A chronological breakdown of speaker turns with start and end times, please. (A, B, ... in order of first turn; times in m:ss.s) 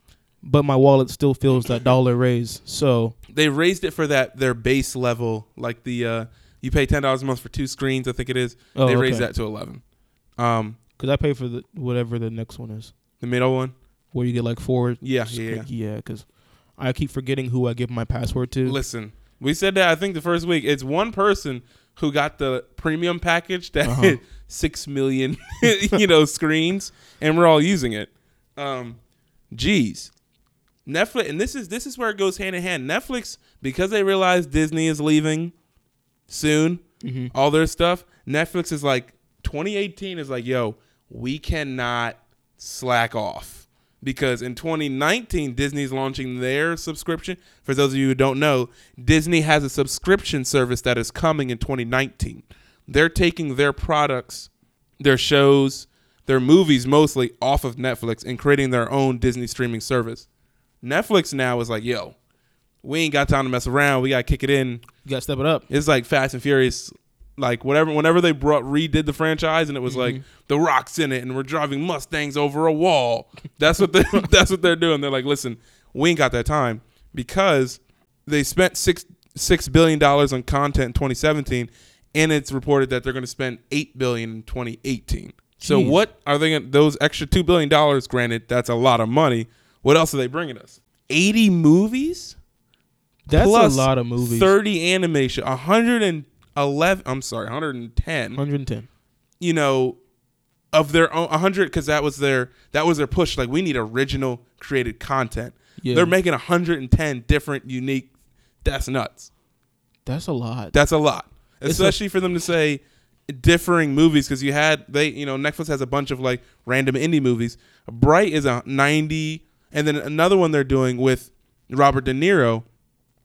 0:00.4-0:03.2 A
0:03.3-0:09.8 B
0:08.8-0:09.3 A
0:10.4-0:10.8 B
0:11.0-0:12.9 A
0:13.2-0:13.7 B
0:14.1-0:16.3 A
0:15.0-0:15.7 B
0:16.8-0:18.8 A
0:18.6-0:29.0 B
0:23.8-0:24.2 A
0:29.5-0:30.1 B
0:30.9-0:35.5 B
0:36.3-0:36.8 B
0:37.0-0:37.3 A
0:37.3-1:00.3 B
1:00.8-1:02.2 B
1:02.8-1:04.8 B
1:05.0-1:05.7 A
1:05.7-1:32.4 B
1:09.9-1:10.2 A
1:25.6-1:26.0 A
1:33.3-1:34.5 A
1:33.3-1:38.4 B
1:38.4-1:38.9 A
1:39.4-1:40.0 B
1:40.7-1:48.1 B
1:45.8-1:46.1 A
1:48.6-1:49.3 B
1:50.1-1:50.7 A
1:50.7-2:02.6 B
1:51.7-1:52.0 A